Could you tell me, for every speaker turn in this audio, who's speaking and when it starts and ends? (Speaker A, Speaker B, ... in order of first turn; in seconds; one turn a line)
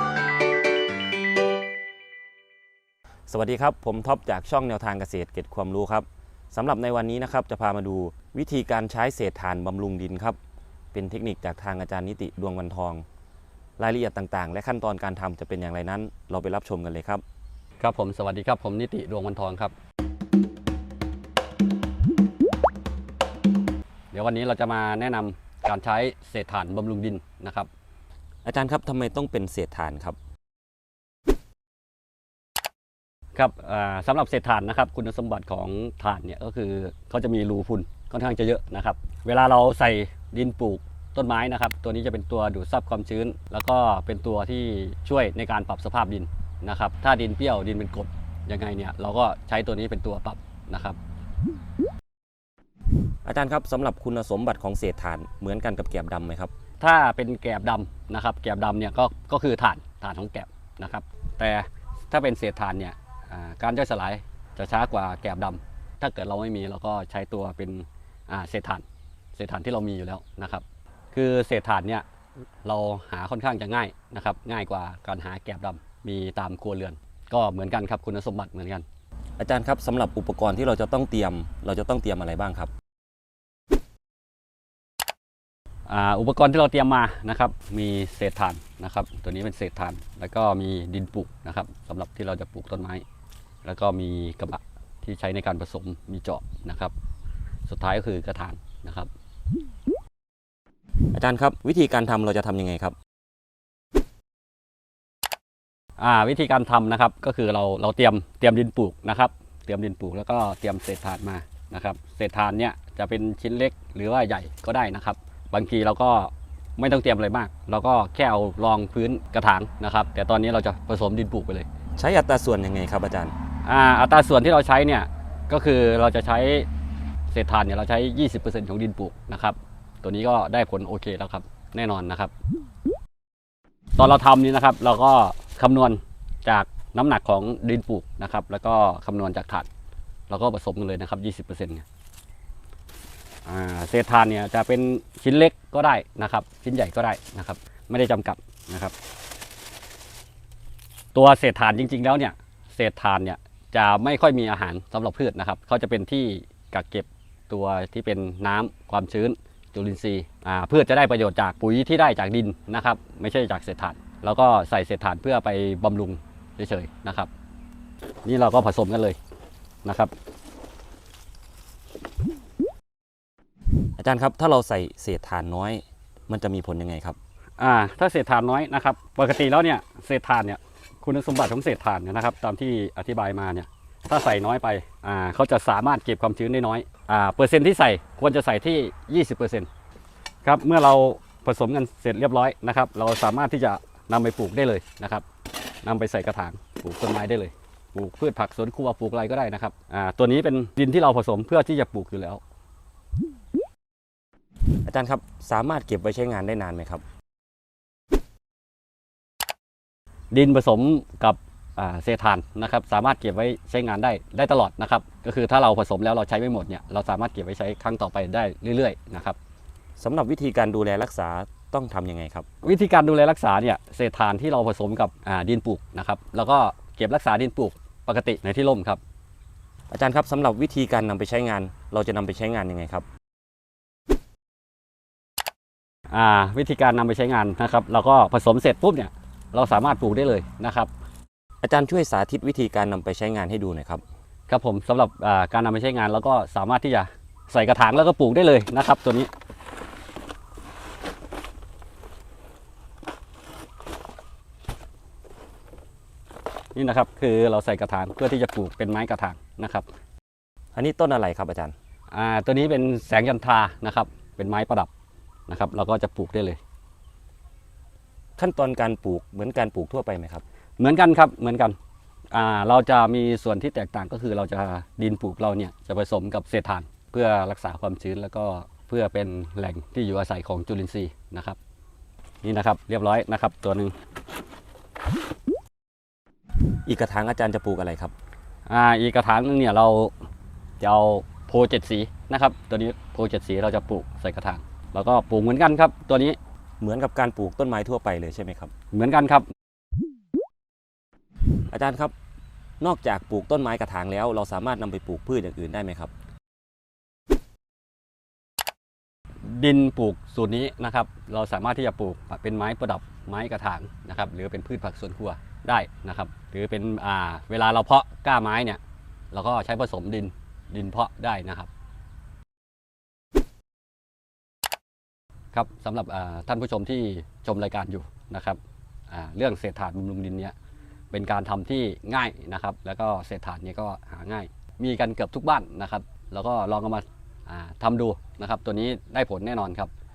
Speaker A: 3.3-10.4
Speaker A: 10.9-13.1
Speaker A: 13.8-17.2
Speaker B: 17.8-19.7
Speaker B: 24.1-27.7
Speaker A: 28.4-30.2
Speaker B: 33.3-51.0
Speaker A: 53.2-56.5
Speaker B: 56.8-68.8
Speaker B: 69.4-72.0
Speaker B: 72.7-78.8
Speaker A: 79.4-82.7
Speaker B: 85.9-93.0
Speaker B: 93.6-96.9
Speaker B: 97.7-99.1
Speaker A: 101.1-103.0
Speaker B: 106.0-121.7
Speaker A: 122.0-123.3
Speaker B: 123.7-126.7
Speaker B: 127.3-132.3
Speaker B: 134.0-139.7
Speaker B: 140.3-141.8
Speaker B: 143.5-148.9
Speaker B: 151.1-167.3
Speaker B: 168.2-169.2
Speaker B: 169.8-170.1
Speaker A: 174.0-177.2
Speaker B: 177.6-189.7
Speaker B: 190.4-195.2
Speaker B: 195.8-202.4
Speaker A: 204.8-207.0
Speaker B: 210.3-219.4
Speaker A: 220.0-222.5
Speaker B: 222.6-229.0
Speaker A: 229.9-233.1
Speaker B: 236.1-240.9
Speaker A: 241.6-244.0
Speaker B: 244.5-249.3
Speaker B: 256.8-259.9
Speaker A: 260.8-261.8
Speaker B: 262.1-264.9
Speaker B: 265.5-266.6
Speaker A: 268.4-270.4
Speaker B: 270.8-271.8
Speaker B: 272.3-281.6
Speaker B: 282.4-283.9
Speaker A: 286.9-288.1
Speaker B: 288.7-290.1
Speaker B: 290.8-296.4
Speaker A: 296.8-298.7
Speaker B: 298.9-299.5
Speaker A: 301.7-302.1
Speaker A: 302.8-306.1
Speaker B: 309.4-318.8
Speaker B: 319.3-321.7
Speaker B: 325.5-330.6
Speaker B: 331.1-339.9